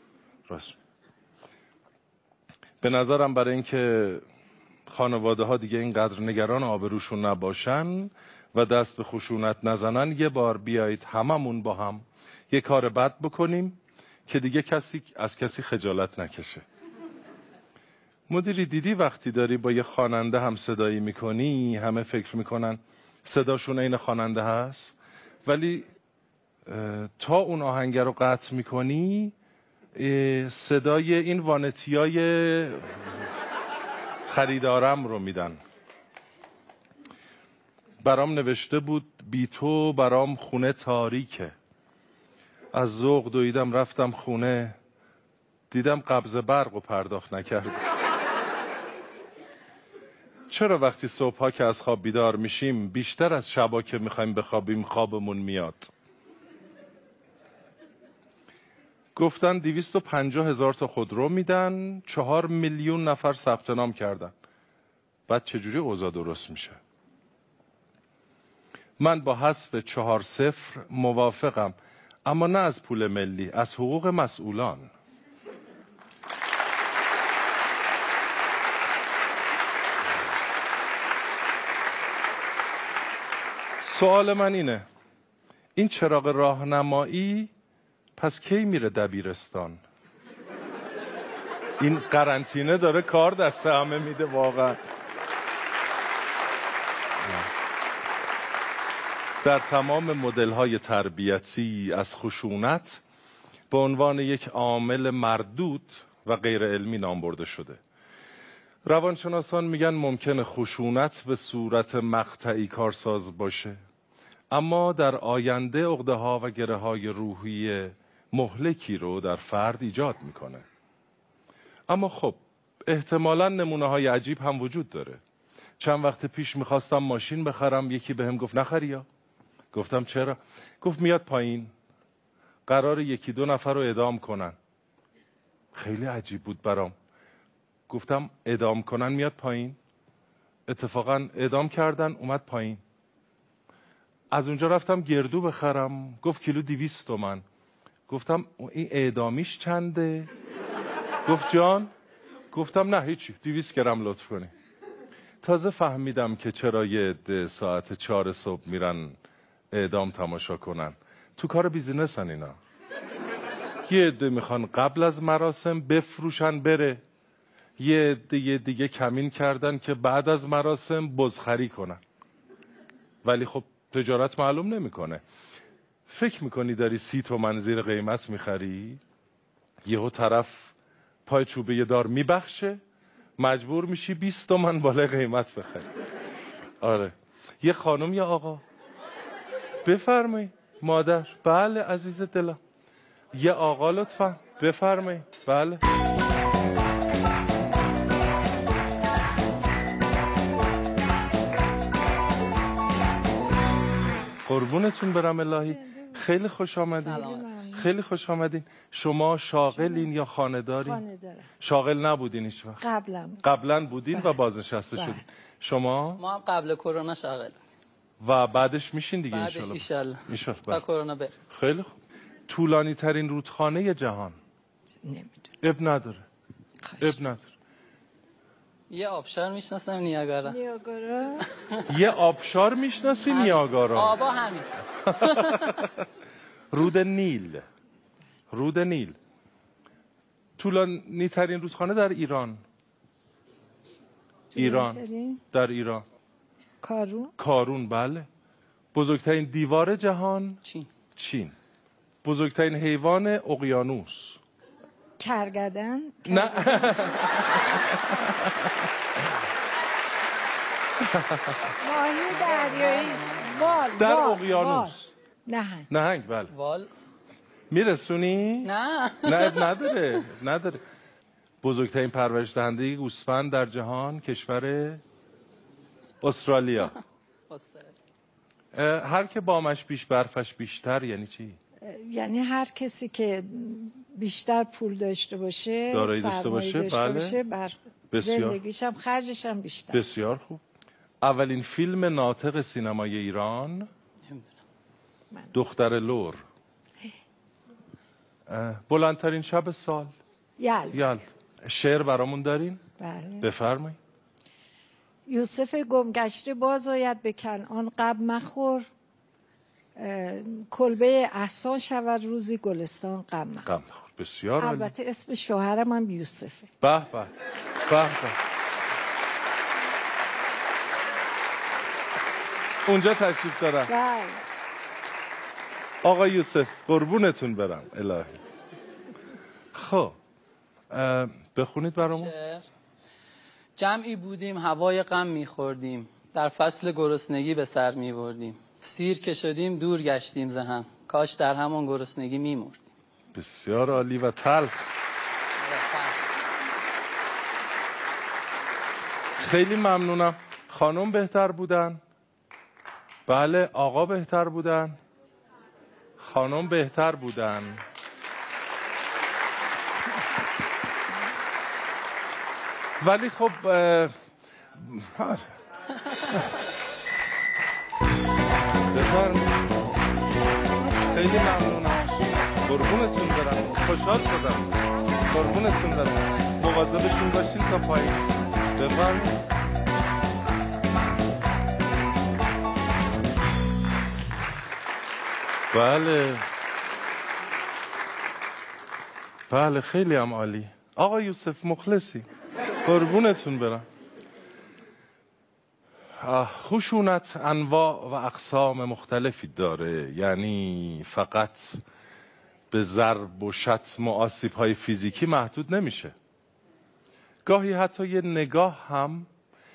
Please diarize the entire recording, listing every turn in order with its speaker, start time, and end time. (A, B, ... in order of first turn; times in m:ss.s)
0:00.5-0:00.8 A
0:02.8-0:04.2 A
0:04.9-0:16.6 A
0:18.3-0:24.9 A
0:25.4-0:25.9 A
0:26.7-0:29.3 A
0:30.0-0:33.2 A
0:34.3-0:35.6 A
0:38.0-0:41.6 A
0:42.7-0:44.8 A
0:45.7-0:47.8 A
0:50.5-0:55.9 A
0:59.2-1:04.3 A
1:05.3-1:06.8 A
1:09.0-1:14.9 A
1:23.8-1:24.8 A
1:25.8-1:27.5 A
1:28.2-1:29.8 A
1:31.8-1:34.8 A
1:37.2-1:37.5 A
1:39.4-1:43.0 A
1:43.7-1:47.8 A
1:48.9-1:53.8 A
1:54.5-2:00.6 A
2:01.9-2:05.2 A
2:05.8-2:09.1 A
2:09.7-2:11.7 A
2:12.7-2:14.6 A
2:15.7-2:16.9 A
2:17.9-2:19.8 A
2:20.7-2:22.8 A
2:24.3-2:27.4 A
2:28.1-2:30.3 A
2:31.2-2:31.9 A
2:32.5-2:34.5 A
2:35.4-2:39.2 A
2:39.7-2:42.6 A
2:43.9-2:47.0 A
2:47.8-2:52.0 A
2:53.2-2:55.2 A
2:56.1-2:59.0 A
2:59.8-3:00.7 A
3:01.3-3:02.8 A
3:03.4-3:05.9 A
3:06.8-3:08.6 A
3:09.8-3:12.6 A
3:13.3-3:15.8 A
3:24.5-3:27.2 A
3:25.5-3:26.4 B
3:27.0-3:27.5 C
3:27.0-3:27.9 B
3:27.7-3:31.0 A
3:29.7-3:30.1 B
3:30.8-3:31.5 B
3:31.6-3:32.8 A
3:32.8-3:33.4 B
3:33.4-3:36.2 A
3:36.2-3:37.6 C
3:38.2-3:40.8 A
3:39.3-3:41.3 C
3:41.5-3:41.9 A
3:42.5-3:44.4 A
3:45.0-3:45.5 B
3:45.6-3:46.2 A
3:46.8-3:47.2 B
3:47.0-3:47.5 A
3:48.9-3:50.6 C
3:50.5-3:51.5 B
3:51.9-3:54.2 A
3:53.3-3:55.8 C
3:55.1-3:55.9 A
3:56.7-3:57.6 A
3:58.5-3:59.2 A
4:00.6-4:02.6 A
4:04.5-4:05.4 B
4:04.6-4:06.0 A
4:06.8-4:07.3 B
4:07.4-4:08.3 A
4:08.9-4:10.6 A
4:11.2-4:11.5 A
4:12.2-4:14.4 A
4:15.2-4:17.2 B
4:16.3-4:18.5 A
4:21.1-4:21.6 A
4:21.8-4:25.0 B
4:22.3-4:23.5 C
4:24.0-4:25.1 A
4:25.5-4:25.9 B
4:25.9-4:26.5 A
4:26.5-4:26.9 C
4:27.7-4:28.7 A
4:28.6-4:29.7 C
4:29.2-4:30.8 A
4:31.6-4:35.0 A
4:36.2-4:37.0 A
4:37.5-4:37.9 C
4:38.7-4:41.6 A
4:41.8-4:50.0 B
4:45.9-4:47.4 A
4:48.1-4:48.6 A
4:49.9-4:50.6 A
4:51.2-4:53.9 A
4:55.5-4:56.4 A
4:58.5-5:00.1 A
5:00.6-5:01.0 B
5:00.9-5:02.8 A
5:03.0-5:03.5 B
5:03.4-5:04.0 A
5:05.3-5:08.9 B
5:10.0-5:13.7 B
5:13.6-5:14.9 A
5:14.6-5:16.7 B
5:16.8-5:17.3 A
5:17.9-5:18.4 A
5:22.8-5:23.9 A
5:23.9-5:24.4 B
5:26.0-5:28.4 A
5:29.7-5:30.2 A
5:30.9-5:32.3 A
5:32.2-5:32.7 C
5:33.8-5:42.9 C
5:43.3-5:44.8 A
5:45.6-5:46.2 C
5:49.4-5:52.0 A
5:53.3-5:55.0 A
5:56.2-5:57.8 A
6:03.0-6:04.1 A
6:04.8-6:05.5 A
6:08.9-6:09.8 A
6:11.0-6:14.7 A
6:15.3-6:19.4 A
6:25.7-6:26.5 A
6:29.5-6:32.2 A
6:32.8-6:33.9 A
6:36.2-6:41.8 A
6:42.7-6:46.1 A
6:47.4-6:49.3 A